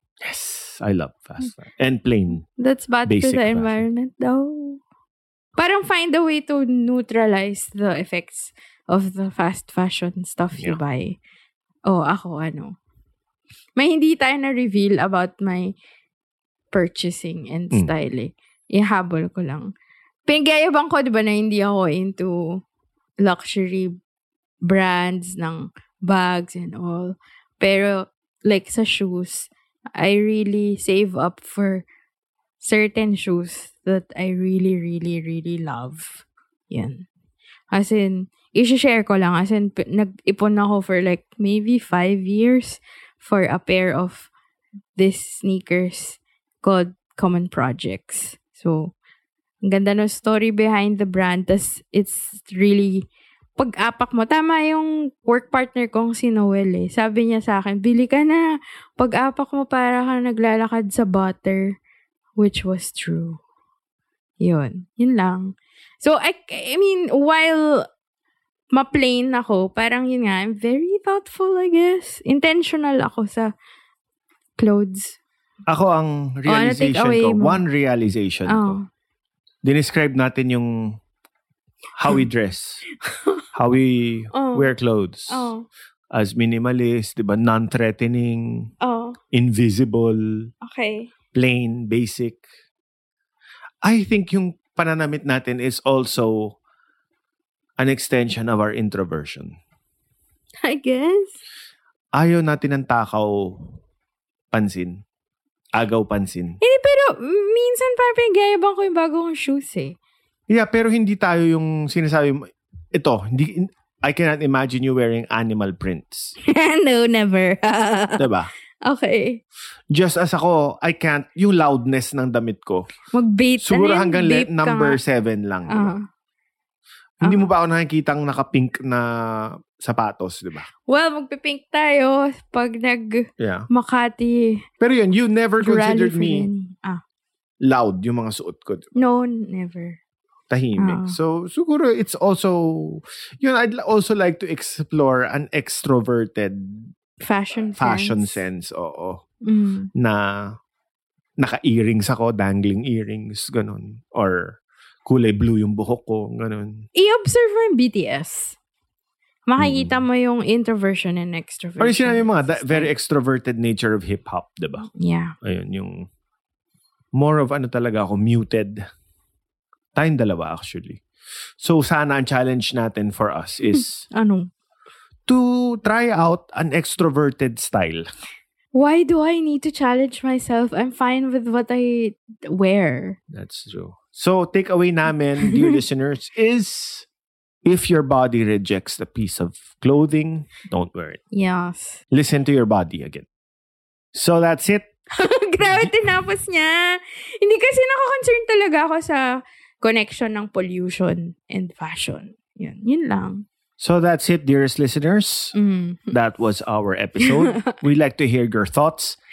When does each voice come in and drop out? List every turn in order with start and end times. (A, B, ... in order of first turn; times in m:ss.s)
0:00.2-0:02.5 A
0:02.6-0:04.8 B
0:03.0-0:03.8 A
0:05.6-0:11.2 B
0:11.9-0:12.8 B
0:13.8-0:15.7 B
0:16.7-0:19.7 B
0:20.3-0:22.6 B
0:23.2-0:23.9 B
0:24.6-0:31.8 B
0:32.6-0:37.0 B
0:37.7-0:44.3 B
0:45.0-0:48.9 B
0:49.6-0:53.0 B
0:53.6-1:01.8 B
1:02.4-1:03.4 B
1:04.4-1:07.8 B
1:08.7-1:13.5 B
1:14.6-1:15.2 B
1:15.7-1:18.8 A
1:16.5-1:17.6 B
1:18.5-1:18.9 B
1:19.6-1:21.0 A
1:21.9-1:22.8 A
1:23.5-1:25.5 A
1:24.3-1:24.7 B
1:25.3-1:25.6 B
1:26.1-1:28.7 A
1:28.8-1:29.2 B
1:29.3-1:30.5 A
1:30.6-1:31.1 B
1:31.3-1:32.4 A
1:33.8-1:36.6 A
1:37.8-1:39.6 A
1:40.6-1:41.4 B
1:42.1-1:43.7 A
1:44.5-1:45.0 A
1:45.7-1:46.6 A
1:46.6-1:50.0 B
1:50.5-1:56.3 A
1:56.4-1:58.2 B
1:58.2-1:58.5 A
1:58.8-1:59.4 B
1:59.9-2:02.9 A
2:03.1-2:05.0 B
2:03.6-2:06.0 A
2:05.7-2:06.0 B
2:07.2-2:10.7 A
2:07.2-2:07.5 B
2:10.9-2:14.6 B
2:13.4-2:13.7 A
2:14.8-2:16.5 A
2:15.6-2:17.0 B
2:17.6-2:18.9 A
2:18.9-2:20.0 B
2:20.5-2:26.9 A
2:20.8-2:21.2 B
2:27.2-2:28.4 B
2:27.7-2:29.2 A
2:29.4-2:29.9 B
2:29.9-2:30.6 A
2:31.4-2:36.9 A
2:36.9-2:38.6 B
2:39.5-2:42.9 B
2:39.6-2:40.0 A
2:41.8-2:44.9 A
2:44.9-2:45.3 B
2:45.4-2:46.1 A
2:47.1-2:48.9 A
2:49.9-2:51.0 A
2:51.6-2:54.1 A
2:54.1-2:54.5 B
2:55.3-2:58.1 A
2:58.7-3:03.2 B
3:03.3-3:07.0 A
3:07.6-3:11.2 A
3:11.3-3:12.0 B
3:12.1-3:13.2 A
3:14.1-3:14.9 A
3:15.1-3:23.4 B
3:15.6-3:15.9 A
3:23.8-3:25.5 A
3:25.5-3:26.1 B
3:26.1-3:29.2 A
3:27.2-3:27.7 B